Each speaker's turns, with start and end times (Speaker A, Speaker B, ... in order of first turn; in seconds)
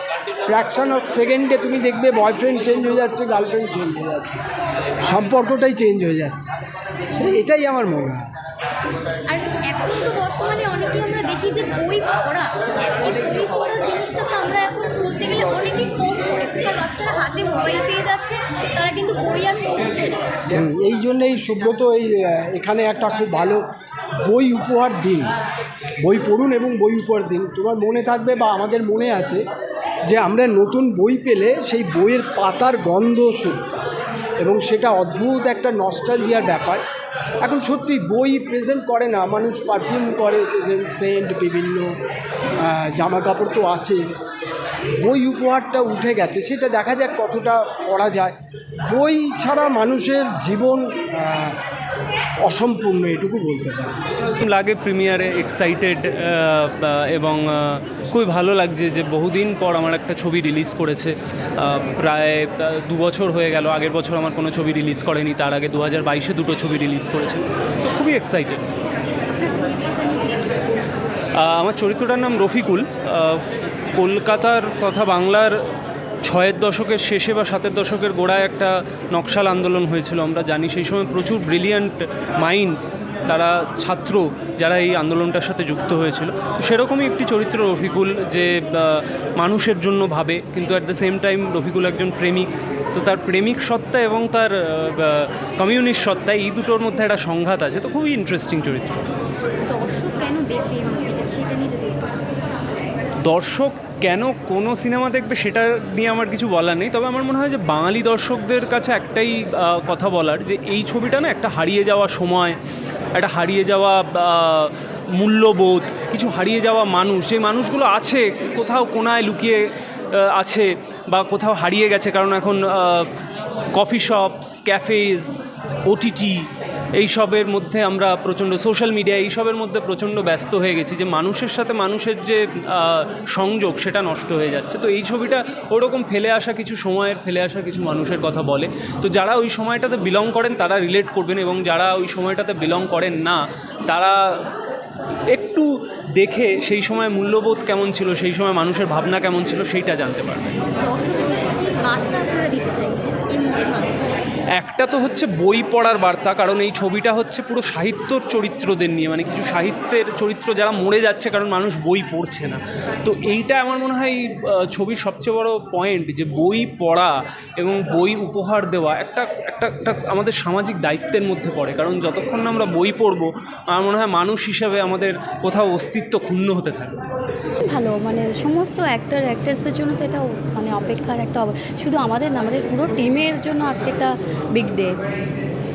Speaker A: 0.5-4.4, 5.1-6.5, 7.1-8.2, 20.5-23.6, 24.2-25.3, 26.0-29.4, 30.1-33.8, 34.4-36.8, 37.4-41.9, 42.6-44.0, 45.0-48.3, 48.9-51.6, 52.4-54.0
Speaker B: 9.3-20.2, 69.3-70.6, 99.7-102.2, 150.8-153.9
Speaker C: 54.4-68.6, 71.4-73.4, 74.0-75.5, 76.2-99.1, 103.2-112.6, 113.1-119.6, 120.1-123.1, 123.7-144.5, 145.3-150.5, 154.6-177.0
Speaker D: 177.7-185.0